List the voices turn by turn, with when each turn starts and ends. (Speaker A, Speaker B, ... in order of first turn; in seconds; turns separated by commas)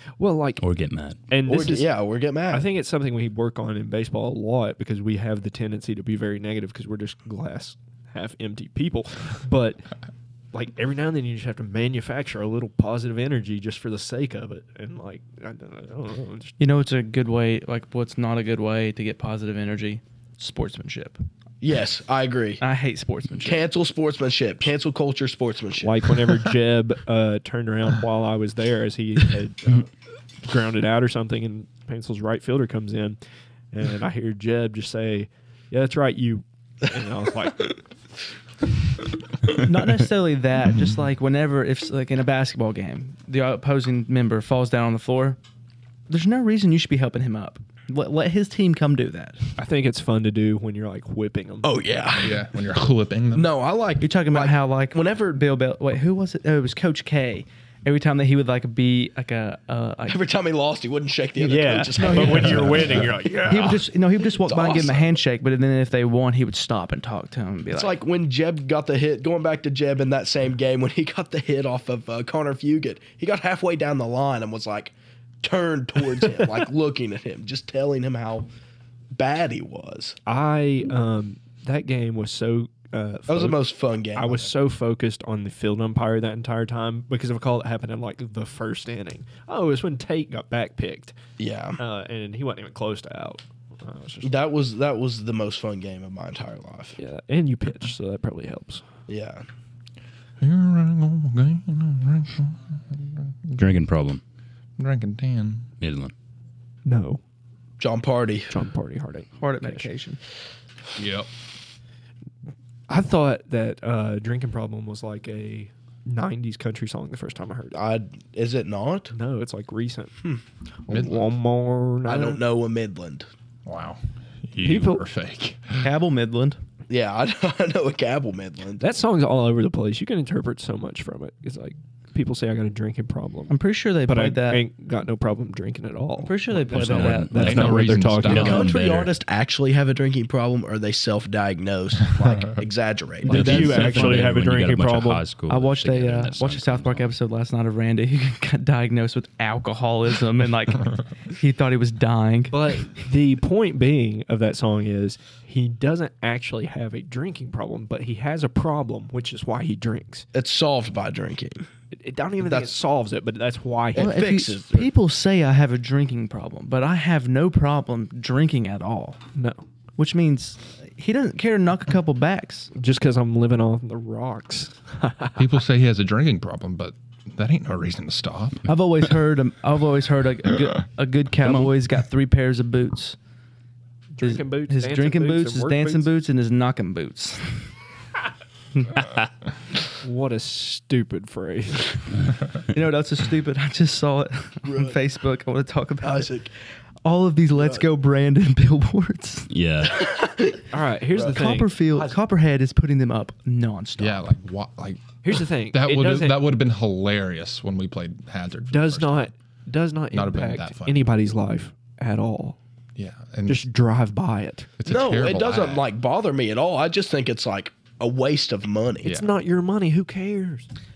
Speaker A: 0.2-0.6, Speaker B: 0.6-1.2, Speaker A: 1.3-1.9, Speaker C: 1.5-2.7, Speaker A: 2.5-9.9, Speaker A: 10.5-16.5, Speaker D: 16.6-21.2, Speaker C: 21.6-22.6, Speaker D: 22.6-23.6, Speaker C: 23.4-26.1, Speaker A: 25.8-29.9, Speaker A: 30.4-33.2, Speaker A: 33.7-37.8, Speaker D: 39.5-45.4, Speaker D: 46.1-49.4, Speaker A: 49.6-52.0, Speaker C: 51.6-52.8, Speaker E: 52.1-53.5, Speaker C: 53.3-55.2, Speaker D: 54.0-60.2, Speaker C: 60.1-63.8, Speaker D: 61.4-67.9, Speaker A: 61.4-63.8, Speaker E: 62.5-63.0, Speaker C: 64.4-65.2, Speaker C: 67.7-78.5, Speaker A: 76.1-76.6, Speaker C: 79.1-80.2, Speaker A: 80.2-83.6, Speaker C: 83.3-84.5, Speaker A: 84.1-91.2, Speaker C: 91.4-91.8, Speaker A: 91.8-94.3, Speaker C: 94.2-97.0, Speaker A: 97.0-98.8, Speaker C: 99.1-99.4, Speaker E: 100.4-103.8, Speaker B: 103.6-104.2, Speaker E: 104.8-105.7, Speaker B: 105.8-106.1, Speaker A: 106.8-107.2, Speaker C: 107.8-108.6, Speaker A: 108.5-109.9, Speaker D: 109.4-110.2, Speaker E: 111.0-111.3, Speaker A: 112.9-117.8, Speaker C: 117.7-119.1, Speaker A: 119.1-120.2, Speaker A: 120.9-122.4, Speaker E: 120.9-121.2, Speaker C: 122.0-123.3, Speaker E: 123.7-125.8, Speaker A: 124.6-125.0, Speaker D: 125.8-126.6, Speaker C: 126.9-128.8, Speaker A: 128.8-138.7, Speaker D: 133.5-134.6, Speaker D: 136.2-137.9, Speaker B: 136.7-139.1, Speaker E: 136.8-138.7, Speaker C: 138.2-143.8, Speaker E: 142.1-142.6, Speaker D: 143.2-144.3, Speaker A: 143.3-145.2, Speaker B: 143.3-147.1, Speaker D: 145.5-152.9, Speaker A: 152.5-160.3, Speaker C: 160.3-161.7, Speaker A: 161.9-164.2, Speaker C: 162.4-162.8, Speaker C: 163.9-164.9, Speaker D: 163.9-169.2, Speaker A: 169.3-169.6, Speaker D: 170.0-172.7, Speaker A: 172.7-175.5, Speaker E: 175.3-178.7, Speaker D: 178.7-183.2, Speaker B: 181.4-181.7, Speaker A: 184.1-186.2, Speaker D: 184.2-187.7, Speaker D: 188.8-189.1, Speaker A: 190.0-192.3, Speaker D: 192.7-196.3, Speaker C: 194.6-195.0, Speaker C: 196.0-196.5, Speaker D: 197.0-199.5, Speaker C: 197.5-197.8, Speaker B: 199.5-200.1, Speaker C: 199.9-202.2, Speaker A: 200.7-201.7, Speaker D: 201.2-204.3, Speaker E: 204.0-209.3, Speaker A: 205.2-206.5, Speaker A: 208.7-212.6, Speaker E: 210.1-211.1, Speaker E: 212.9-213.7, Speaker A: 213.5-214.7, Speaker E: 214.8-215.9, Speaker C: 214.8-219.2, Speaker E: 219.0-219.3, Speaker A: 219.0-220.7